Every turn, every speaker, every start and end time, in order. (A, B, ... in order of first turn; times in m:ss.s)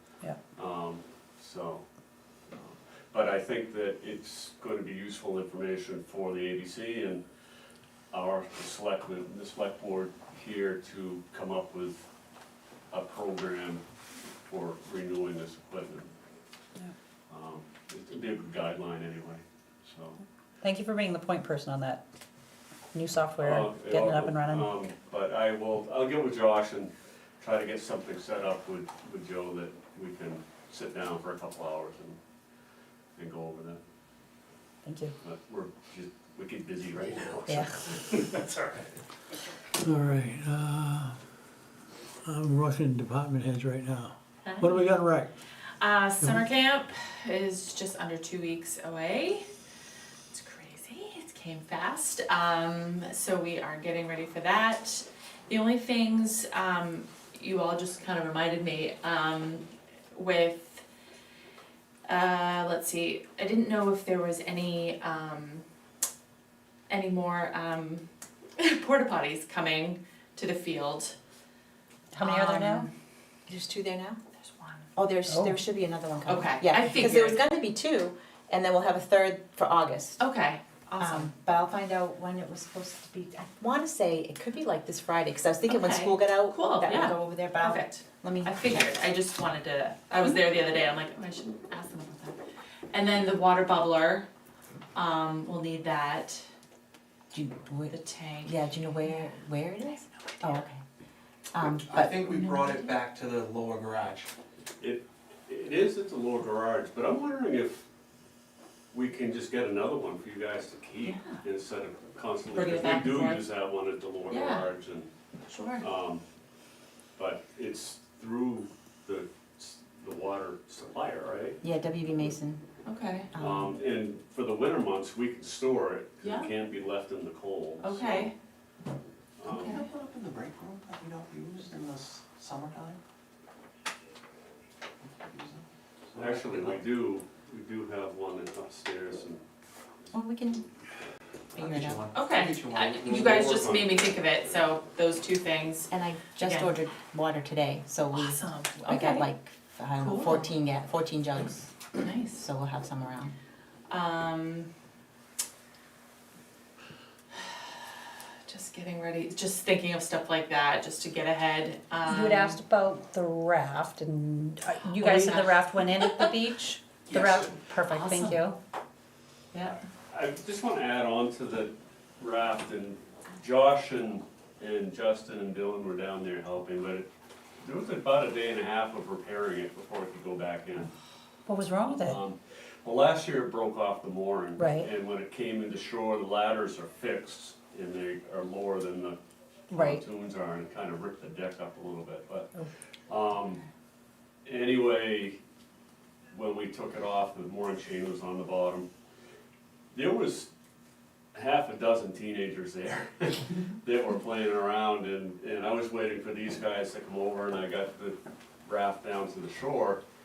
0:00.5-0:01.8 A
0:02.5-0:07.2 A
0:08.1-0:12.1 A
0:12.9-0:13.8 A
0:14.5-0:16.1 A
0:17.3-0:20.2 A
0:20.6-0:22.0 B
0:22.9-0:24.7 B
0:23.4-0:32.2 A
0:33.2-0:33.8 A
0:34.8-0:35.1 B
0:35.2-0:38.8 A
0:39.8-0:41.2 C
0:42.2-0:45.3 C
0:44.4-0:45.0 D
0:45.8-0:49.4 D
0:46.2-0:46.4 C
0:50.3-1:00.8 D
1:02.1-1:05.6 D
1:06.9-1:08.0 D
1:08.6-1:11.2 D
1:12.1-1:12.9 B
1:12.2-1:12.9 D
1:13.5-1:14.2 E
1:14.4-1:14.9 D
1:14.9-1:20.2 E
1:15.3-1:15.6 B
1:16.2-1:17.4 D
1:20.2-1:21.3 D
1:21.0-1:28.8 E
1:25.7-1:32.4 D
1:32.9-1:34.3 D
1:34.9-1:36.4 D
1:37.3-1:40.8 E
1:37.9-1:39.4 D
1:39.9-1:40.6 D
1:41.5-1:42.2 E
1:41.6-1:44.3 F
1:42.3-1:42.9 D
1:44.8-1:47.9 A
1:48.9-1:55.1 A
1:51.0-1:51.4 D
1:52.5-1:53.4 D
1:54.3-1:54.7 D
1:55.5-1:55.8 D
1:55.8-1:56.2 A
1:57.2-2:01.6 A
2:01.6-2:02.6 E
2:02.8-2:03.3 D
2:03.3-2:03.8 E
2:03.4-2:08.3 A
2:06.2-2:06.5 D
2:07.8-2:08.3 D
2:09.4-2:09.8 A
2:09.5-2:09.9 D
2:09.8-2:13.0 F
2:15.2-2:16.8 F
2:16.2-2:19.4 A
2:20.1-2:20.6 E
2:21.5-2:23.6 F
2:21.6-2:22.0 E
2:22.1-2:26.7 D
2:22.9-2:24.0 A
2:25.9-2:31.7 E
2:28.1-2:29.3 D
2:30.0-2:30.5 D
2:32.0-2:32.4 D
2:32.3-2:33.3 E
2:33.9-2:34.7 D
2:38.5-2:42.6 D
2:42.1-2:48.6 B
2:44.9-2:46.3 D
2:47.1-2:48.4 D
2:50.1-2:57.1 A
2:57.6-3:00.9 A
3:01.5-3:02.2 B
3:01.8-3:09.2 A
3:09.7-3:12.5 A
3:13.1-3:13.6 A
3:14.4-3:15.4 A
3:16.3-3:18.9 A
3:19.9-3:20.5 A
3:21.3-3:30.0 A